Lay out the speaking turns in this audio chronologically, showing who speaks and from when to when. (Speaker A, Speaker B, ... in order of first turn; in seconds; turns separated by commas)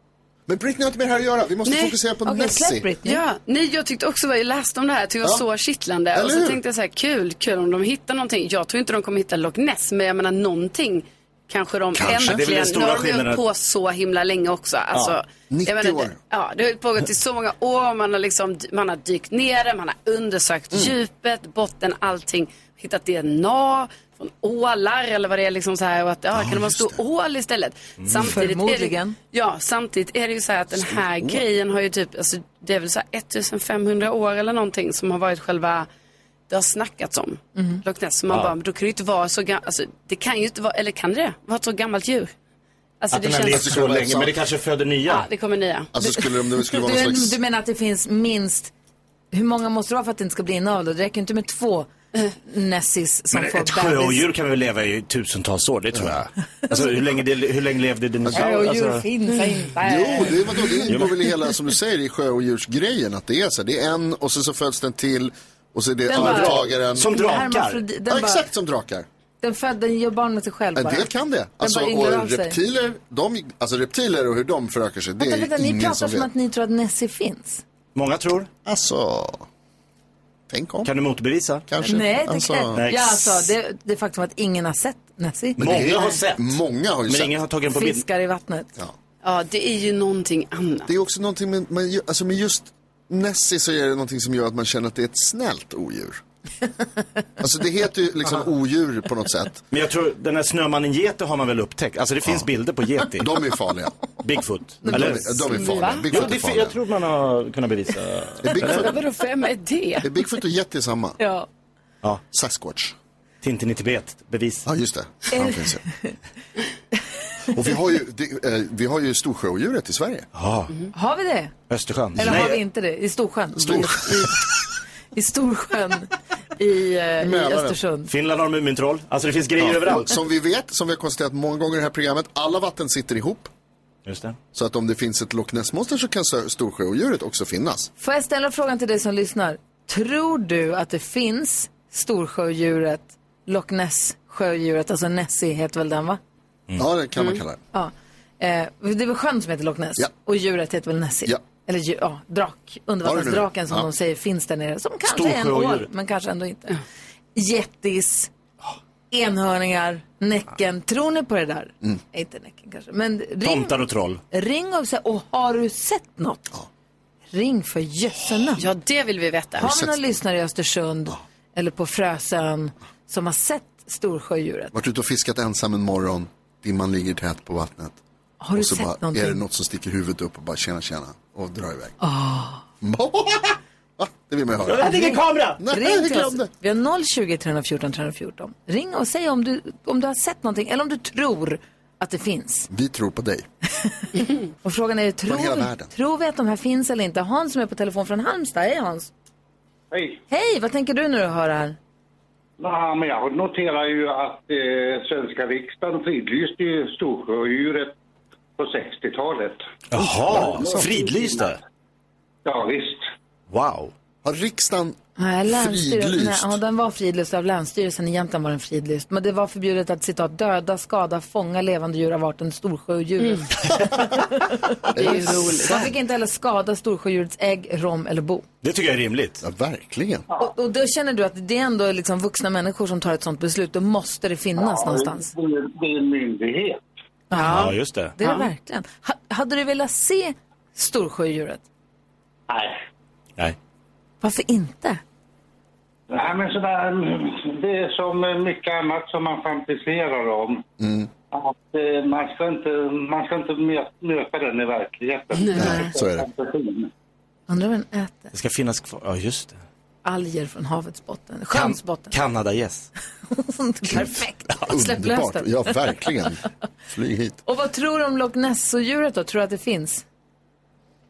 Speaker A: 0.5-2.9, Speaker B: 1.6-1.9, Speaker C: 2.2-3.2, Speaker B: 3.0-35.9, Speaker A: 6.1-6.6, Speaker A: 11.9-12.4, Speaker D: 12.1-13.4, Speaker A: 15.5-16.2, Speaker A: 26.3-27.0, Speaker D: 28.0-28.3, Speaker C: 28.2-29.2, Speaker A: 30.8-31.4, Speaker B: 36.5-42.3, Speaker C: 37.5-37.8, Speaker D: 38.3-38.5, Speaker B: 43.0-43.8, Speaker D: 43.1-45.3, Speaker A: 43.4-44.3, Speaker B: 45.1-45.9, Speaker A: 45.9-47.4, Speaker C: 46.0-48.7, Speaker C: 49.3-51.9, Speaker C: 52.4-54.2, Speaker D: 53.3-59.0, Speaker C: 58.3-61.0, Speaker A: 59.8-67.1, Speaker C: 66.1-68.5, Speaker D: 66.1-67.8, Speaker A: 68.1-69.0, Speaker C: 69.4-72.6, Speaker A: 70.8-76.3, Speaker C: 75.2-77.6, Speaker D: 77.9-78.5, Speaker A: 78.6-79.5, Speaker A: 80.5-80.9, Speaker D: 80.8-81.7, Speaker A: 81.7-82.8, Speaker C: 81.8-85.6, Speaker D: 82.8-83.5, Speaker A: 85.6-87.3, Speaker D: 85.6-88.0, Speaker C: 87.7-88.7, Speaker B: 89.2-90.9, Speaker A: 90.9-96.2, Speaker A: 97.4-99.6, Speaker D: 99.7-103.3, Speaker A: 103.2-104.0, Speaker D: 104.2-105.5, Speaker C: 104.8-105.4, Speaker A: 104.8-106.8, Speaker B: 105.5-106.2, Speaker D: 106.1-108.9, Speaker A: 108.4-109.0, Speaker B: 108.6-110.1, Speaker A: 110.0-111.2, Speaker C: 111.2-111.5, Speaker A: 112.3-112.9, Speaker D: 113.4-114.7, Speaker A: 114.7-115.8, Speaker C: 115.3-116.1, Speaker A: 117.5-120.3, Speaker D: 120.3-120.7, Speaker C: 120.9-121.5, Speaker D: 121.7-122.6, Speaker C: 122.2-124.4, Speaker A: 122.2-122.5, Speaker A: 123.5-124.3, Speaker C: 125.1-128.1, Speaker A: 127.2-127.8, Speaker D: 128.1-130.1, Speaker A: 129.6-133.5, Speaker D: 134.1-134.4, Speaker A: 134.5-137.9, Speaker C: 138.0-146.2, Speaker A: 146.8-147.6, Speaker B: 147.2-147.4, Speaker C: 147.7-156.8, Speaker A: 153.0-153.9, Speaker D: 155.0-155.9, Speaker C: 157.3-158.3, Speaker C: 159.1-163.8, Speaker D: 163.4-164.2, Speaker C: 164.3-166.4, Speaker C: 167.3-168.7, Speaker B: 168.6-169.8, Speaker A: 169.6-170.0, Speaker C: 169.6-174.8, Speaker A: 174.7-178.0, Speaker C: 178.4-179.4, Speaker A: 178.5-181.9, Speaker C: 182.0-182.6, Speaker A: 182.8-185.0, Speaker D: 184.6-185.6, Speaker C: 184.8-192.7, Speaker A: 185.6-186.5, Speaker A: 192.7-193.4, Speaker C: 193.8-199.1, Speaker A: 195.3-195.9, Speaker E: 199.9-200.2, Speaker C: 200.3-201.8, Speaker E: 202.6-207.9, Speaker E: 208.6-211.6, Speaker D: 209.9-211.6, Speaker A: 210.2-210.9, Speaker E: 212.4-213.0, Speaker D: 213.5-213.9, Speaker A: 214.2-215.0, Speaker C: 215.2-228.4, Speaker A: 215.5-216.6, Speaker A: 224.9-225.8, Speaker B: 224.9-225.9, Speaker D: 228.6-229.4, Speaker A: 229.4-230.2, Speaker C: 230.4-235.3, Speaker E: 234.6-236.8, Speaker C: 237.3-241.6, Speaker D: 237.4-238.1, Speaker E: 242.5-242.8, Speaker C: 244.2-245.0, Speaker E: 246.1-250.6, Speaker A: 250.8-251.1, Speaker E: 251.3-256.9, Speaker B: 255.4-255.8, Speaker A: 255.6-256.3, Speaker C: 257.5-258.3, Speaker D: 258.3-259.6, Speaker C: 260.0-262.1, Speaker D: 261.5-262.9, Speaker C: 263.3-265.8, Speaker A: 264.6-267.4, Speaker C: 267.4-270.0